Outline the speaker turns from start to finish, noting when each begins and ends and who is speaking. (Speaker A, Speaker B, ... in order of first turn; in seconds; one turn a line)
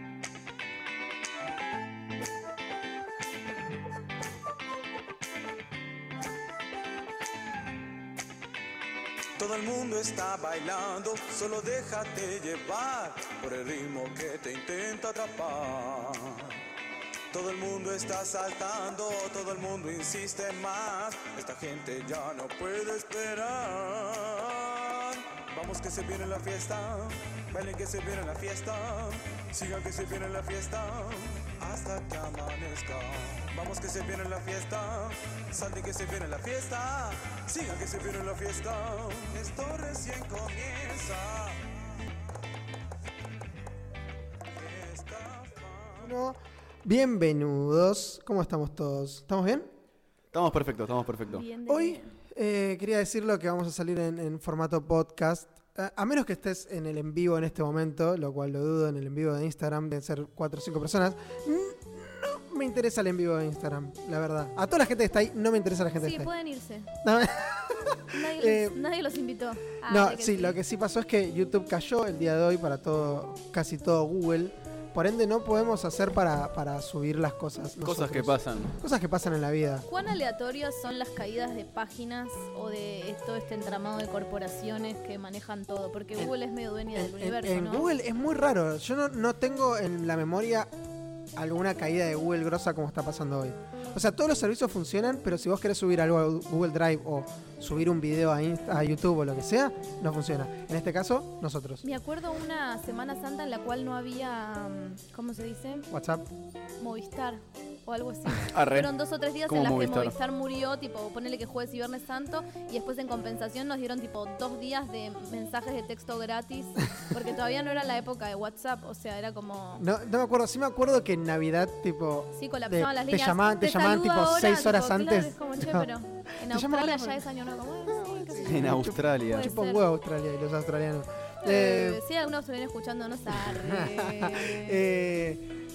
Speaker A: 9.4-16.6
Speaker A: 17.3-41.8
Speaker A: 44.5-46.1
Speaker B: 46.0-49.7
Speaker C: 50.3-51.4
Speaker D: 51.3-52.1
Speaker B: 51.7-66.3
Speaker D: 66.0-66.9
Speaker B: 67.0-68.8
Speaker D: 68.1-70.6
Speaker B: 69.9-79.8
Speaker C: 77.8-78.7
Speaker D: 79.9-87.9
Speaker B: 86.9-90.7
Speaker B: 91.3-101.8
Speaker D: 101.8-105.9
Speaker B: 105.9-106.2
Speaker D: 106.8-119.8
Speaker C: 108.4-108.9
Speaker C: 109.5-110.1
Speaker B: 119.8-125.9
Speaker D: 122.3-129.8
Speaker B: 126.4-127.2
Speaker B: 127.9-132.0
Speaker C: 128.4-129.5
Speaker D: 131.4-134.8
Speaker B: 133.5-135.5